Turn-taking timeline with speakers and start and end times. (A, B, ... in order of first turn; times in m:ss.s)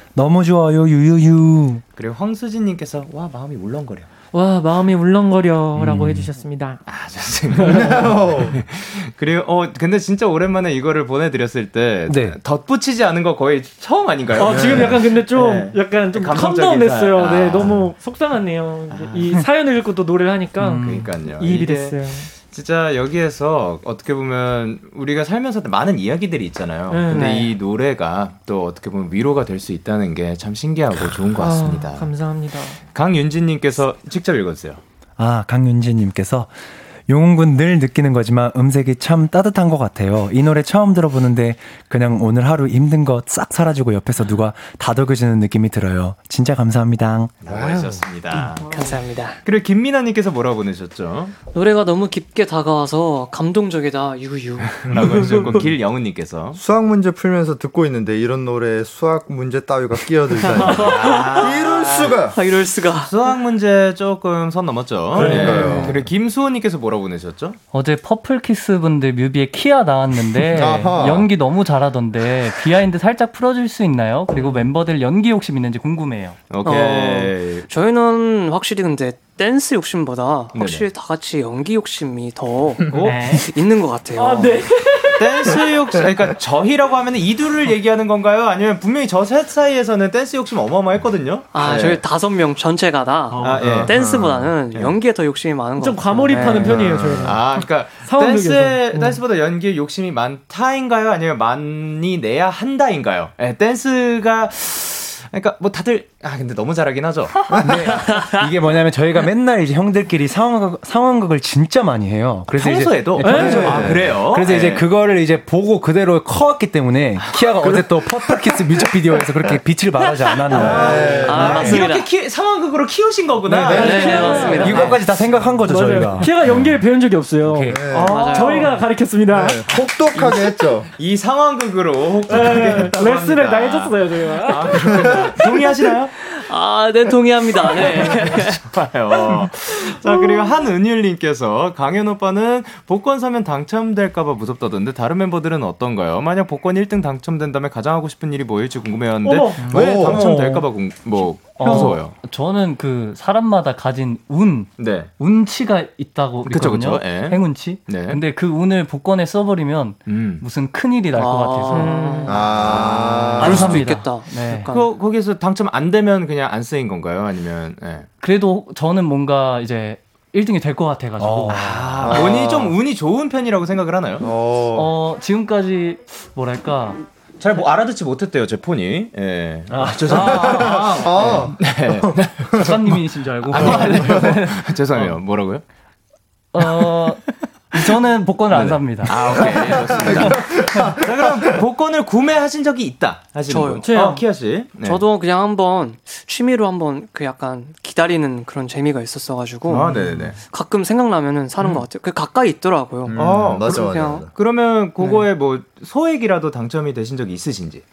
0:00.1-0:01.8 A
0:02.0-0:04.1 B
0:04.3-0:06.8 C
0:05.8-0:06.3 A
0:06.9-0:17.9 B
0:07.6-0:07.9 C
0:07.6-0:08.6 D
0:12.1-0:12.4 A
0:14.3-0:22.3 C
0:14.5-0:15.0 D
0:18.9-0:19.3 B
0:20.6-0:21.1 E
0:20.7-0:32.1 B
0:26.9-0:27.5 C
0:31.3-0:32.8 C
0:32.9-0:34.8 B
0:35.2-0:36.5 A
0:37.1-0:47.3 A
0:47.4-0:48.7 B
0:47.5-0:48.0 D
0:48.7-0:49.4 F
0:49.4-0:51.3 B
0:51.5-0:55.1 F
0:54.8-0:56.6 B
0:55.0-0:55.6 D
0:56.5-1:02.4 D
1:00.5-1:03.1 F
1:00.6-1:02.1 B
1:03.0-1:07.6 B
1:05.1-1:06.1 D
1:07.7-1:16.4 E
1:10.5-1:11.3 D
1:16.5-1:17.7 B
1:16.6-1:24.6 F
1:20.5-1:20.8 B
1:22.9-1:23.4 B
1:23.0-1:23.5 E
1:24.2-1:25.6 C
1:25.2-1:32.0 B
1:31.5-1:36.8 F
1:33.3-1:33.8 E
1:33.4-1:34.9 B
1:33.4-1:33.9 A
1:35.8-1:39.2 C
1:36.4-1:47.9 B
1:36.7-1:37.4 D
1:47.5-1:48.0 D
1:47.6-2:01.8 A
1:52.5-1:54.9 B
1:53.2-1:53.8 C
1:53.3-1:54.2 D
1:57.3-1:58.8 D
2:00.3-2:02.1 F
2:00.5-2:05.0 B
2:00.5-2:01.8 D
2:03.5-2:06.5 A
2:03.7-2:05.0 C
2:03.7-2:05.0 F
2:05.6-2:09.7 C
2:07.4-2:07.8 A
2:07.7-2:08.2 D
2:07.9-2:08.7 B
2:07.9-2:08.7 F
2:09.3-2:10.9 D
2:10.1-2:16.1 B
2:12.3-2:15.6 C
2:16.2-2:18.6 F
2:17.7-2:32.2 B
2:29.2-2:30.6 C
2:29.7-2:30.2 D
2:29.8-2:30.2 E
2:31.6-2:42.0 E
2:34.8-2:35.1 B
2:36.4-2:38.2 B
2:40.1-2:40.4 B
2:41.2-2:42.5 F
2:41.8-2:42.3 C
2:42.2-2:43.8 D
2:42.3-2:43.7 B
2:43.4-2:44.7 E
2:43.4-2:44.9 F
2:44.5-2:48.1 B
2:48.2-2:51.6 E
2:51.2-2:52.2 A
2:51.5-2:54.3 B
2:52.0-2:52.8 D
2:54.2-2:54.9 D
2:54.7-2:57.0 E
2:57.4-3:02.8 B
2:59.7-3:00.9 A
3:00.1-3:02.8 D
3:00.1-3:01.2 E
3:02.5-3:05.2 E
3:03.5-3:05.6 B
3:03.5-3:04.4 D
3:06.5-3:10.3 E
3:06.6-3:07.8 B
3:08.5-3:15.0 B
3:09.2-3:11.6 D
3:13.5-3:14.0 F
3:13.9-3:14.2 C
3:14.8-3:19.9 F
3:19.7-3:20.4 B
3:19.9-3:20.2 E
3:20.5-3:24.2 F
3:23.0-3:24.3 D
3:23.2-3:27.8 B